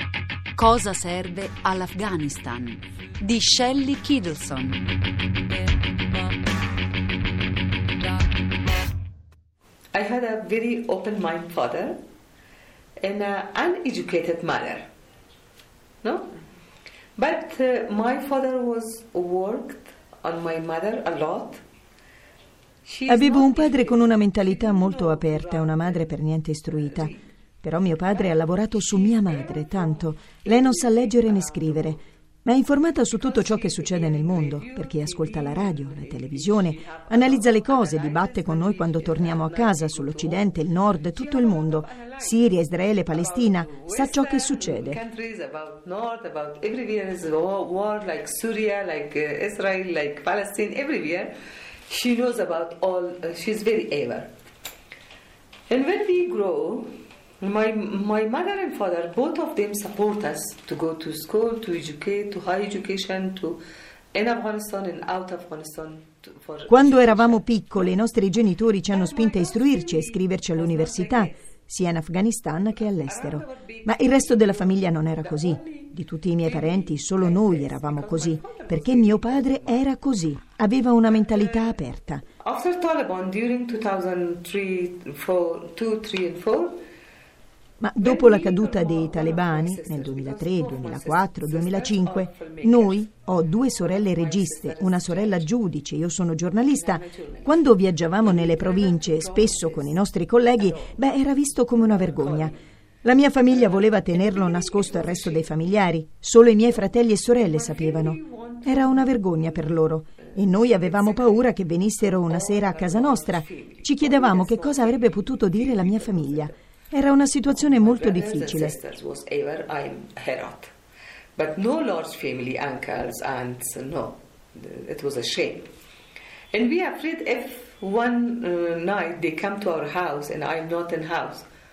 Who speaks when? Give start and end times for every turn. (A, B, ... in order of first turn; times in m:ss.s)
0:00.6-0:04.8 A
0:09.9-0:12.0 B
0:13.0-0:14.9 B
0:16.0-0:16.3 B
0:17.2-0:21.6 B
0:22.8-0:26.1 B
0:23.1-0:27.1 C
0:26.8-0:27.1 B
0:27.6-0:45.0 C
0:28.8-0:31.1 B
0:33.2-0:40.6 B
0:41.1-0:42.3 B
0:43.1-0:51.3 B
0:51.9-0:54.3 B
0:55.7-0:56.9 B
0:57.4-1:03.6 B
1:04.1-1:07.4 B
1:06.7-1:22.2 C
1:08.9-1:11.3 B
1:13.0-1:15.9 B
1:16.4-1:19.6 B
1:22.4-1:26.8 B
1:27.8-1:58.8 C
1:28.0-1:33.0 B
1:33.7-1:35.5 B
1:36.7-1:37.6 B
1:38.2-1:40.0 B
1:40.6-1:40.9 B
1:41.8-1:42.5 B
1:44.1-1:45.5 B
1:47.4-1:49.7 B
1:50.4-1:56.5 B
1:57.8-2:00.7 B
2:01.4-2:05.7 B
2:06.5-2:11.5 B